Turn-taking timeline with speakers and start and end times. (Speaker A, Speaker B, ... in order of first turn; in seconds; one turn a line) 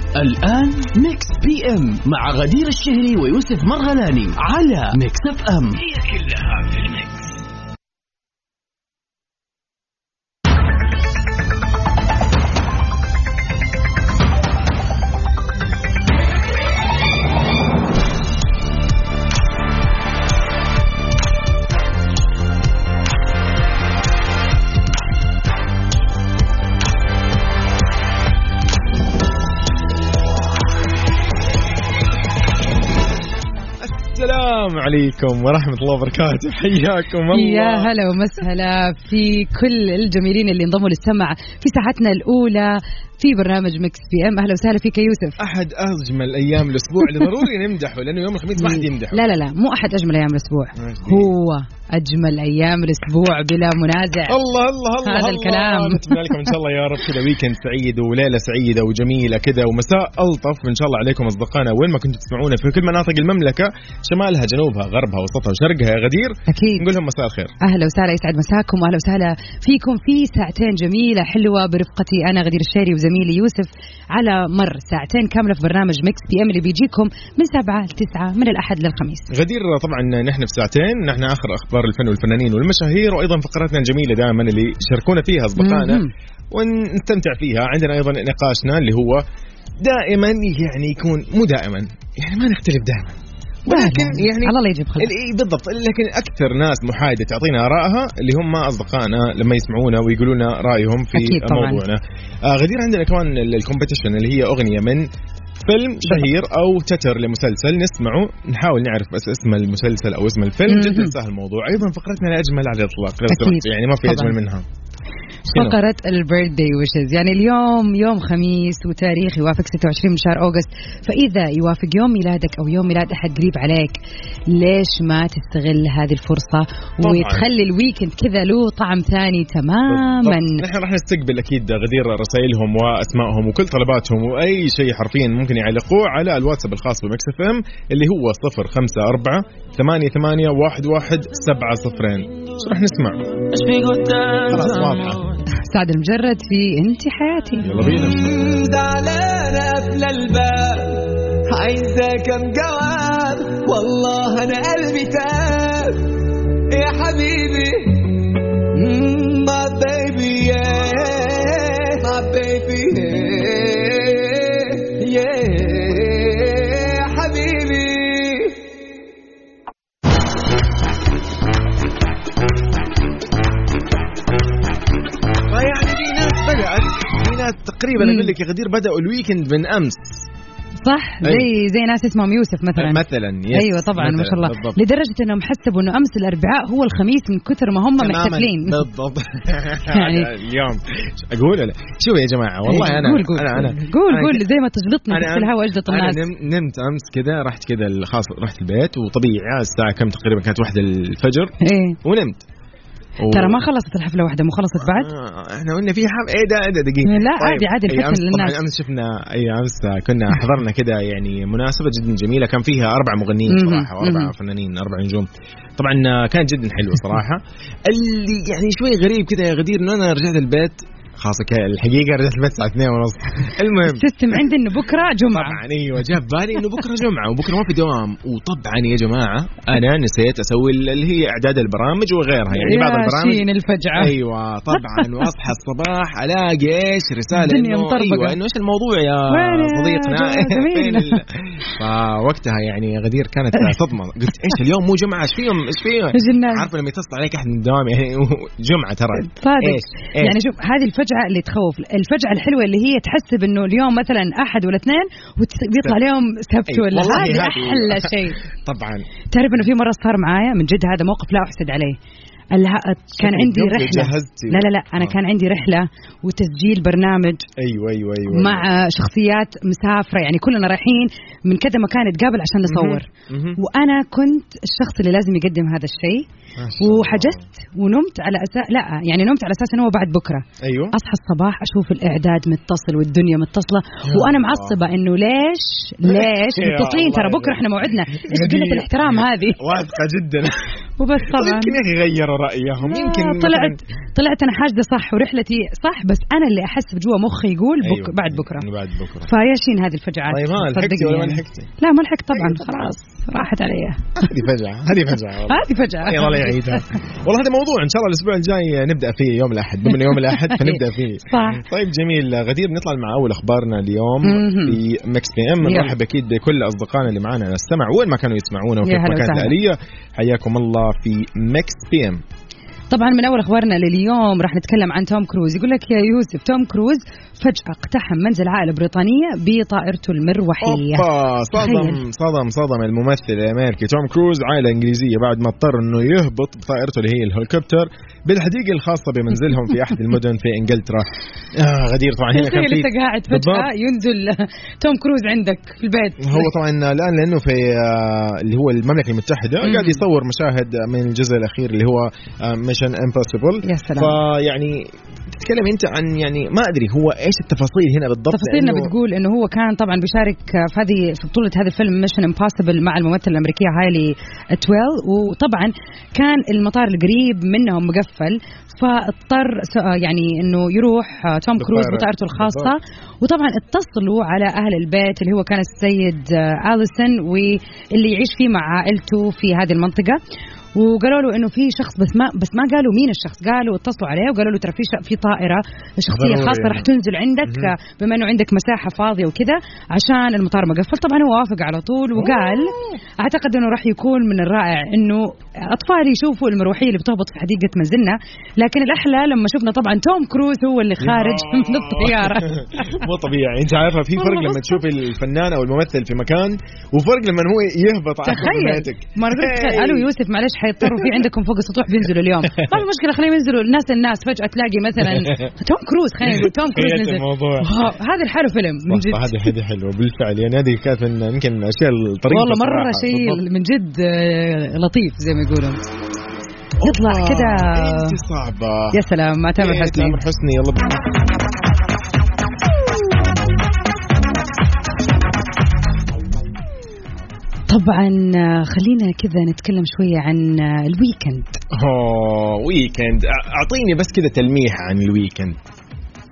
Speaker A: 0.1-7.2
Speaker B: 33.8-37.9
Speaker C: 37.3-45.4
Speaker B: 45.4-49.2
Speaker C: 48.6-54.4
Speaker B: 50.8-51.3
Speaker B: 54.3-67.5
Speaker C: 55.0-56.5
Speaker C: 66.5-66.9
Speaker C: 67.6-79.3
Speaker B: 79.3-89.2
Speaker C: 85.6-86.1
Speaker B: 89.8-105.1
Speaker C: 93.7-95.1
Speaker C: 101.1-101.8
Speaker B: 105.6-114.7
Speaker C: 110.7-111.2
Speaker C: 113.3-114.3
Speaker C: 115.5-124.0
Speaker B: 115.5-115.8
Speaker C: 124.5-130.6
Speaker B: 127.0-127.5
Speaker B: 129.9-143.2
Speaker D: 143.5-145.2
Speaker B: 144.5-145.3
Speaker C: 145.5-147.7
Speaker B: 147.6-148.2
Speaker D: 147.9-158.2
Speaker D: 158.7-168.6
Speaker B: 175.5-180.3
Speaker C: 178.0-178.3
Speaker C: 180.8-188.9
Speaker B: 181.2-181.5
Speaker B: 182.8-184.8
Speaker B: 188.0-194.4
Speaker C: 189.9-190.3
Speaker C: 192.7-196.2
Speaker B: 195.1-202.4
Speaker C: 201.6-202.0
Speaker B: 203.2-203.6
Speaker C: 203.3-205.1
Speaker B: 204.9-224.1
Speaker C: 207.1-208.6
Speaker C: 213.5-214.3
Speaker C: 223.8-225.6
Speaker B: 225.3-250.4
Speaker C: 232.5-234.2
Speaker C: 234.7-235.3
Speaker C: 237.3-238.4
Speaker C: 239.3-241.2
Speaker C: 246.1-246.7
Speaker C: 249.2-258.4
Speaker B: 256.7-259.1
Speaker C: 259.3-262.0
Speaker C: 262.5-267.5
Speaker B: 263.2-265.1
Speaker B: 267.6-268.7
Speaker C: 268.3-276.3
Speaker B: 272.7-273.6
Speaker B: 276.6-277.4
Speaker C: 276.8-289.9
Speaker B: 280.6-281.0
Speaker B: 284.0-284.8
Speaker B: 286.1-290.7
Speaker C: 291.0-291.8
Speaker B: 291.2-293.8
Speaker C: 292.8-298.7
Speaker B: 297.8-299.3
Speaker C: 299.3-304.3
Speaker B: 300.3-301.7
Speaker B: 302.3-302.9
Speaker B: 304.2-322.2
Speaker C: 305.5-306.8
Speaker C: 309.9-311.6
Speaker C: 314.2-314.8
Speaker C: 315.6-315.9
Speaker C: 318.8-319.6
Speaker C: 322.9-332.0
Speaker B: 330.6-343.7
Speaker C: 342.3-346.5
Speaker B: 346.2-358.9
Speaker C: 349.6-350.0
Speaker C: 353.6-354.2
Speaker C: 358.3-380.2
Speaker B: 371.6-372.7
Speaker C: 380.8-403.1
Speaker B: 386.1-386.9
Speaker B: 387.5-387.8
Speaker B: 392.2-392.9
Speaker B: 401.0-410.1
Speaker C: 404.1-404.8
Speaker C: 408.3-419.5
Speaker B: 412.5-412.8
Speaker B: 415.1-415.5
Speaker B: 416.3-417.7
Speaker B: 418.9-423.4
Speaker C: 422.3-425.8
Speaker B: 426.8-429.0
Speaker C: 426.8-428.2
Speaker C: 428.9-430.2
Speaker B: 429.6-431.1
Speaker C: 437.7-441.6
Speaker B: 441.7-445.6